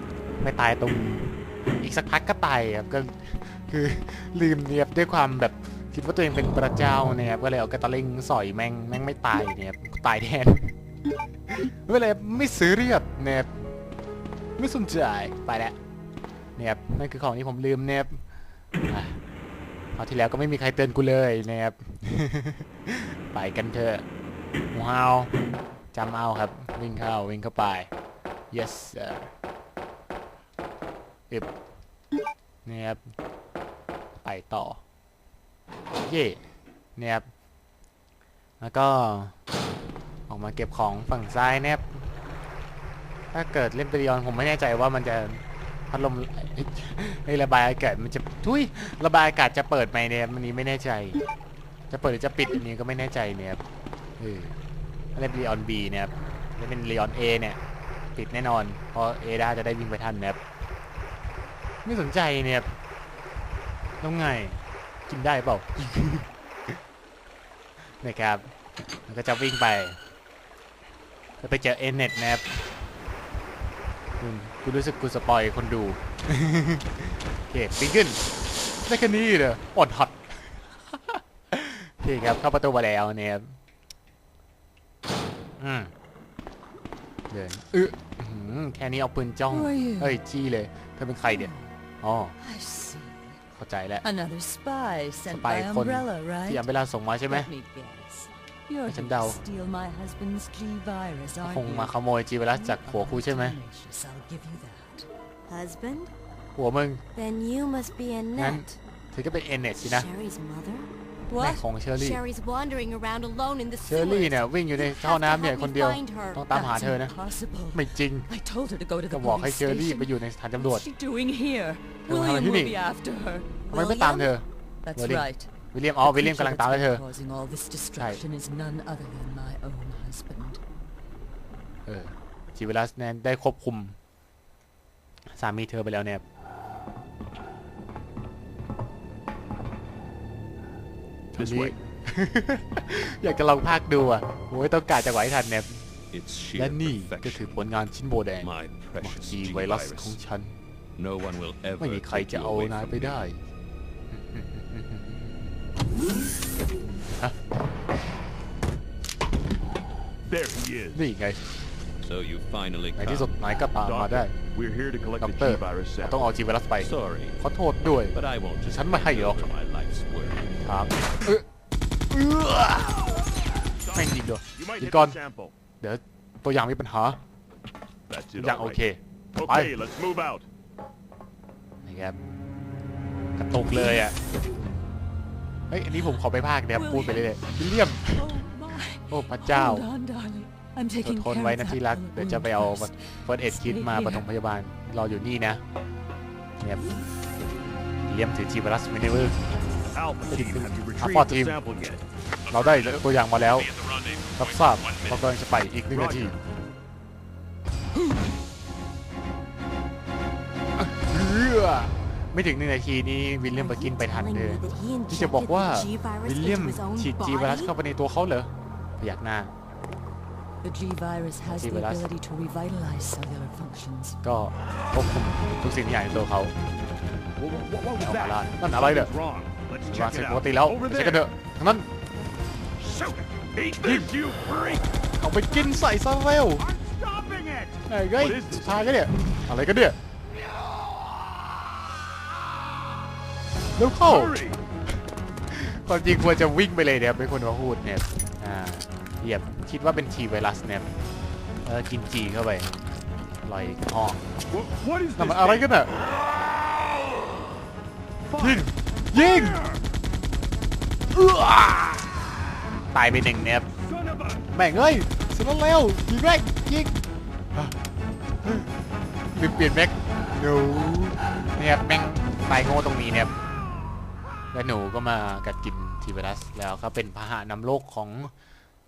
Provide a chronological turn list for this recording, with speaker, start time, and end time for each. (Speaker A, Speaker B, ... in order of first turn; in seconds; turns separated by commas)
Speaker A: 0.4-10.7, Speaker A: 11.5-13.5, Speaker A: 14.6-15.8, Speaker A: 16.6-18.2, Speaker A: 18.9-19.2, Speaker A: 19.9-24.0, Speaker A: 24.7-25.3, Speaker A: 25.9-27.9, Speaker A: 28.5-29.3, Speaker A: 32.6-33.0, Speaker A: 34.2-34.8, Speaker A: 36.0-36.4, Speaker A: 37.0-37.3, Speaker A: 38.6-39.3, Speaker A: 40.3-42.1, Speaker A: 43.3-51.2, Speaker A: 51.9-53.6, Speaker A: 54.2-54.6, Speaker A: 55.1-57.6, Speaker A: 58.1-60.4, Speaker A: 61.8-62.8, Speaker A: 64.0-66.8, Speaker A: 68.0-68.5, Speaker A: 69.1-70.0, Speaker A: 71.4-72.6, Speaker A: 74.2-78.2, Speaker A: 78.8-83.5, Speaker A: 85.6-85.9, Speaker A: 87.3-92.4, Speaker B: 89.5-90.2, Speaker B: 91.2-91.8, Speaker B: 92.4-93.4, Speaker A: 93.5-94.0, Speaker B: 94.0-96.7, Speaker A: 95.3-97.5, Speaker B: 97.2-102.0, Speaker A: 98.8-99.4, Speaker A: 101.4-103.6, Speaker B: 102.5-105.1, Speaker C: 105.5-106.1, Speaker A: 106.5-107.0, Speaker C: 107.1-108.8, Speaker A: 108.3-110.1, Speaker C: 109.8-110.9, Speaker B: 111.3-111.6, Speaker A: 111.4-112.2, Speaker C: 111.9-116.5, Speaker A: 113.8-117.1, Speaker B: 116.5-124.3, Speaker A: 117.7-118.3, Speaker A: 119.1-120.9, Speaker A: 122.0-122.8, Speaker A: 123.7-127.0, Speaker C: 123.9-124.3, Speaker B: 124.8-130.6, Speaker A: 127.9-128.2, Speaker A: 131.8-134.0, Speaker A: 135.3-136.2, Speaker D: 141.3-141.8, Speaker A: 141.3-145.8, Speaker D: 146.1-147.7, Speaker A: 146.6-150.6, Speaker D: 148.4-150.2, Speaker D: 150.9-153.3, Speaker A: 151.8-153.4, Speaker A: 154.1-155.5, Speaker A: 157.0-157.3, Speaker E: 160.3-161.1, Speaker A: 160.9-161.4, Speaker D: 162.0-163.3, Speaker A: 162.9-164.3, Speaker E: 163.7-166.3, Speaker A: 165.2-169.5, Speaker D: 166.8-171.2, Speaker A: 170.4-171.4, Speaker A: 172.1-173.3, Speaker E: 173.8-175.5, Speaker A: 173.9-175.2, Speaker A: 175.8-177.2, Speaker E: 178.1-178.8, Speaker A: 178.3-179.7, Speaker E: 179.3-180.5, Speaker A: 181.8-182.2, Speaker A: 183.4-184.2, Speaker A: 185.7-188.3, Speaker B: 186.7-187.4, Speaker B: 188.0-194.3, Speaker A: 189.1-189.9, Speaker A: 191.0-195.6, Speaker A: 196.6-197.0, Speaker A: 198.0-199.4, Speaker E: 199.9-202.0, Speaker A: 200.3-201.6, Speaker A: 202.5-203.7, Speaker A: 204.3-206.4, Speaker E: 205.9-206.3, Speaker A: 210.8-219.5, Speaker C: 213.5-217.7, Speaker B: 220.6-224.2, Speaker A: 221.4-222.1, Speaker A: 224.2-226.5, Speaker E: 227.4-231.3, Speaker A: 228.0-229.1, Speaker A: 229.9-231.9, Speaker E: 232.8-234.9, Speaker A: 233.8-234.1, Speaker A: 235.2-236.7, Speaker E: 236.6-239.1, Speaker A: 237.9-240.0, Speaker E: 240.6-241.3, Speaker A: 243.8-244.4, Speaker E: 244.0-244.6, Speaker A: 245.5-250.9, Speaker A: 251.6-252.7, Speaker A: 253.4-254.3, Speaker E: 254.5-255.8, Speaker A: 255.2-255.9, Speaker E: 256.4-257.2, Speaker E: 258.3-259.8, Speaker A: 258.4-259.6, Speaker A: 261.1-262.3, Speaker A: 262.9-263.7, Speaker E: 263.8-264.4, Speaker A: 264.5-266.9, Speaker A: 268.4-268.7, Speaker A: 269.3-273.3, Speaker A: 274.5-278.3